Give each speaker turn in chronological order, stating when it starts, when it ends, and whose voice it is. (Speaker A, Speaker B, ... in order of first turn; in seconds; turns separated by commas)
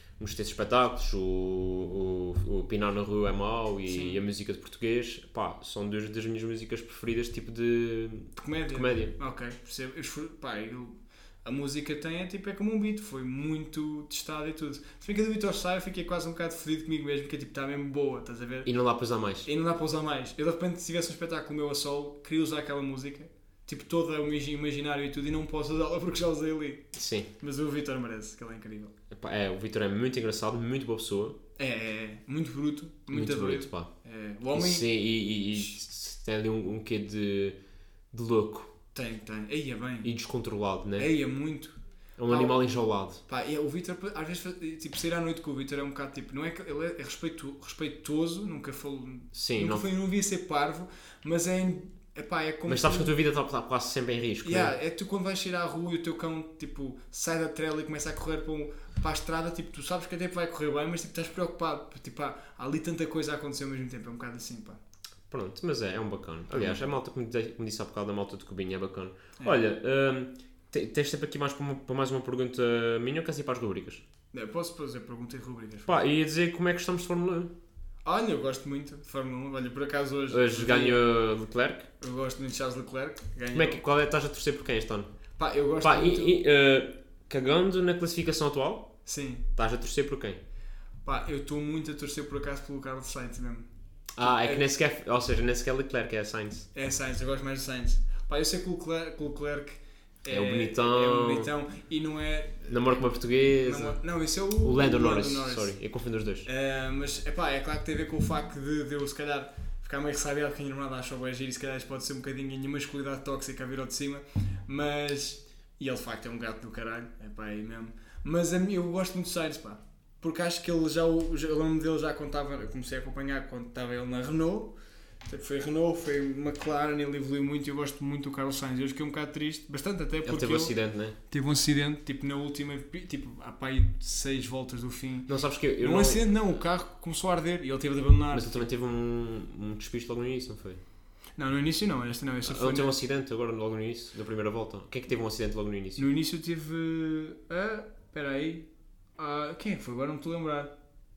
Speaker A: 0.2-9.1, Speaker B: 3.9-4.2, Speaker B: 8.3-18.7, Speaker A: 18.6-19.5, Speaker B: 19.4-28.9, Speaker A: 26.9-27.3, Speaker A: 29.1-31.4, Speaker B: 31.6-34.9, Speaker A: 33.1-33.9, Speaker A: 34.5-37.6, Speaker A: 38.1-38.7, Speaker B: 38.9-40.1, Speaker A: 40.0-41.1, Speaker B: 41.0-41.8, Speaker A: 42.2-43.2, Speaker B: 42.3-42.6, Speaker B: 43.2-53.1, Speaker A: 49.3-49.8, Speaker A: 52.7-54.7, Speaker B: 54.4-64.8, Speaker A: 65.3-74.0, Speaker B: 66.5-66.8, Speaker B: 74.3-76.0, Speaker A: 75.9-77.5, Speaker B: 78.0-81.0, Speaker A: 80.3-81.9, Speaker B: 82.0-83.8, Speaker A: 83.5-85.1, Speaker B: 85.4-86.4, Speaker A: 85.8-89.0, Speaker B: 89.0-89.5, Speaker A: 89.5-90.4, Speaker B: 91.0-93.7, Speaker A: 94.2-96.7, Speaker B: 94.2-94.6, Speaker B: 96.7-103.0, Speaker A: 100.3-101.5, Speaker A: 102.7-104.0, Speaker B: 103.6-105.7, Speaker A: 104.6-106.5, Speaker B: 106.4-124.7, Speaker B: 125.3-138.6, Speaker A: 130.2-131.2, Speaker A: 135.3-136.2, Speaker A: 138.3-140.8, Speaker B: 141.4-142.9, Speaker A: 142.4-146.0, Speaker B: 145.9-148.7, Speaker B: 149.2-150.7